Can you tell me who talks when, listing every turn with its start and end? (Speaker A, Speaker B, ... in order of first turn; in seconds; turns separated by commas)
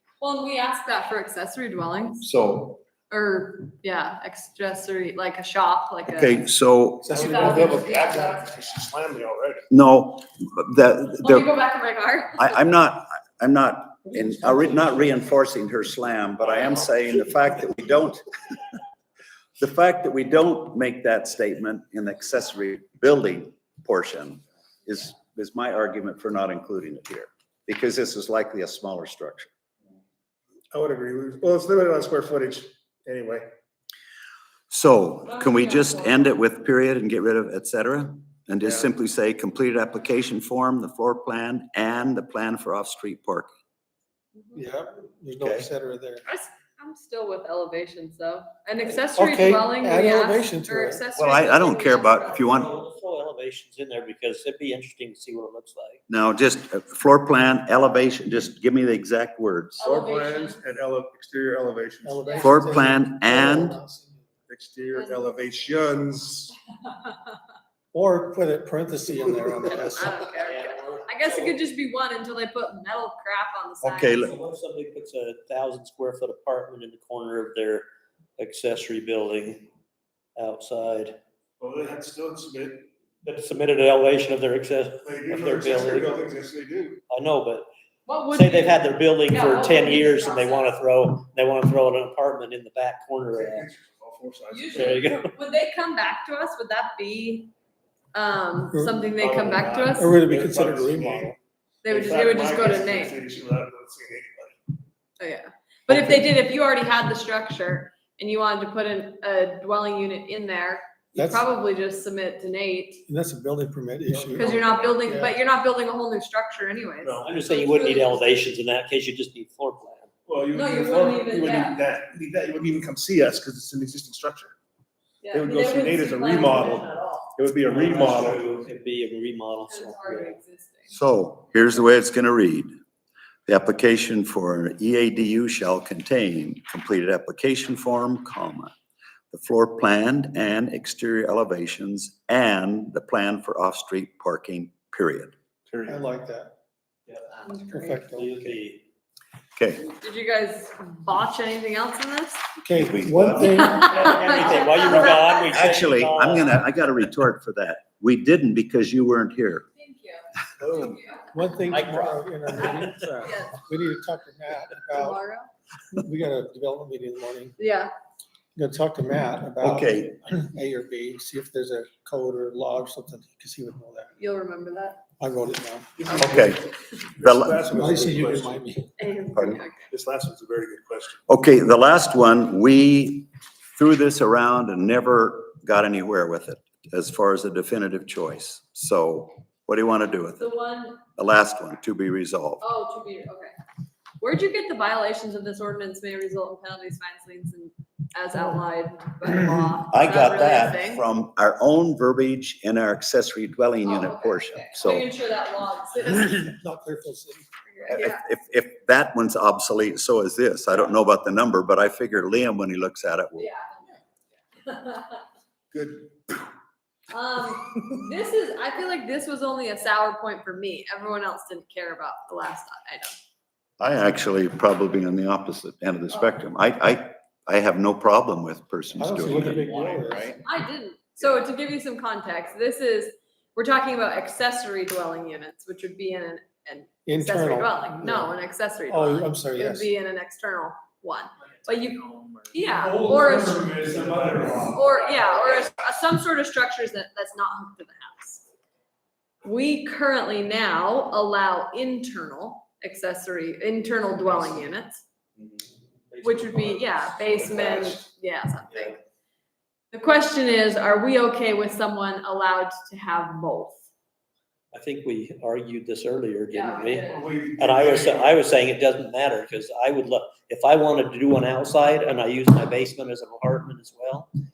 Speaker A: 0.2-2.3, Speaker B: 2.2-2.8, Speaker A: 3.1-6.4, Speaker B: 6.1-7.2, Speaker C: 7.0-8.0, Speaker A: 7.1-8.6, Speaker D: 7.1-9.7, Speaker B: 9.7-11.5, Speaker A: 11.2-12.6, Speaker B: 12.4-18.2, Speaker C: 14.4-14.9, Speaker D: 16.6-16.9, Speaker B: 19.6-29.5, Speaker D: 30.7-33.5, Speaker B: 34.7-43.5, Speaker A: 35.3-36.3, Speaker A: 44.3-44.6, Speaker C: 44.5-46.2, Speaker B: 45.4-45.7, Speaker A: 46.2-52.6, Speaker C: 49.1-51.1, Speaker B: 51.2-52.7, Speaker E: 52.3-56.0, Speaker B: 56.1-59.8, Speaker A: 59.8-60.6, Speaker D: 59.8-62.2, Speaker C: 62.0-64.4, Speaker A: 62.2-62.6, Speaker B: 62.4-63.8, Speaker D: 64.5-66.5, Speaker A: 64.9-65.5, Speaker A: 66.8-67.3, Speaker C: 67.9-70.1, Speaker A: 69.7-74.3, Speaker E: 70.4-71.5, Speaker B: 73.8-74.3, Speaker E: 74.2-77.9, Speaker E: 78.4-79.7, Speaker E: 80.4-81.2, Speaker D: 81.6-82.9, Speaker E: 83.2-86.1, Speaker D: 85.0-87.0, Speaker E: 87.1-87.7, Speaker A: 88.1-90.7, Speaker E: 88.3-93.7, Speaker D: 93.3-95.0, Speaker A: 94.5-97.5, Speaker E: 94.7-95.3, Speaker A: 98.1-100.1, Speaker C: 98.7-99.1, Speaker D: 99.1-101.3, Speaker C: 99.9-101.4, Speaker A: 101.8-103.2, Speaker D: 101.9-104.7, Speaker A: 105.2-113.0, Speaker C: 105.9-106.3, Speaker C: 111.2-111.5, Speaker C: 113.1-115.4, Speaker D: 114.1-115.0, Speaker A: 114.4-118.5, Speaker D: 117.0-117.3, Speaker E: 117.2-120.1, Speaker D: 120.3-124.5, Speaker A: 120.5-121.8, Speaker A: 125.2-127.3, Speaker D: 125.3-128.5, Speaker E: 127.7-130.3, Speaker A: 129.7-130.9, Speaker B: 130.9-132.7, Speaker B: 133.5-138.7, Speaker B: 139.3-145.3, Speaker C: 145.9-146.5, Speaker E: 147.1-148.9, Speaker A: 147.4-147.9, Speaker C: 147.7-148.6, Speaker B: 149.6-149.9, Speaker A: 149.9-152.4, Speaker C: 152.6-154.0, Speaker B: 152.8-153.8, Speaker A: 153.4-155.5, Speaker E: 153.5-156.6, Speaker B: 155.5-159.7, Speaker A: 159.8-161.3, Speaker C: 161.3-165.2, Speaker E: 161.7-163.0, Speaker A: 162.6-163.6, Speaker A: 164.9-165.5, Speaker C: 165.9-167.6, Speaker A: 167.6-167.9, Speaker C: 168.6-174.1, Speaker B: 169.6-170.2, Speaker A: 174.2-175.0, Speaker C: 175.2-176.2, Speaker D: 176.0-176.6, Speaker B: 176.2-177.7, Speaker D: 177.2-178.6, Speaker C: 177.6-178.9, Speaker A: 179.0-179.9, Speaker D: 179.9-181.2, Speaker B: 181.3-190.5, Speaker A: 190.4-191.0, Speaker B: 191.2-192.6, Speaker A: 192.6-193.5, Speaker A: 194.2-201.0, Speaker B: 199.9-205.1, Speaker A: 203.8-206.5, Speaker C: 206.1-207.5, Speaker A: 207.7-208.2, Speaker B: 207.9-213.5, Speaker A: 213.4-213.9, Speaker A: 214.6-215.2, Speaker D: 215.7-216.1, Speaker A: 217.1-223.2, Speaker B: 223.8-230.4, Speaker A: 226.1-226.4, Speaker C: 229.0-230.4, Speaker A: 230.4-243.8, Speaker C: 237.1-238.3, Speaker C: 238.9-239.9, Speaker E: 242.0-242.5, Speaker D: 242.8-244.8, Speaker A: 244.7-248.4, Speaker A: 249.4-255.0, Speaker E: 256.1-258.0, Speaker A: 256.2-259.0, Speaker A: 259.9-263.8, Speaker E: 264.7-267.1, Speaker A: 266.5-267.3, Speaker D: 267.1-268.3, Speaker E: 267.6-274.3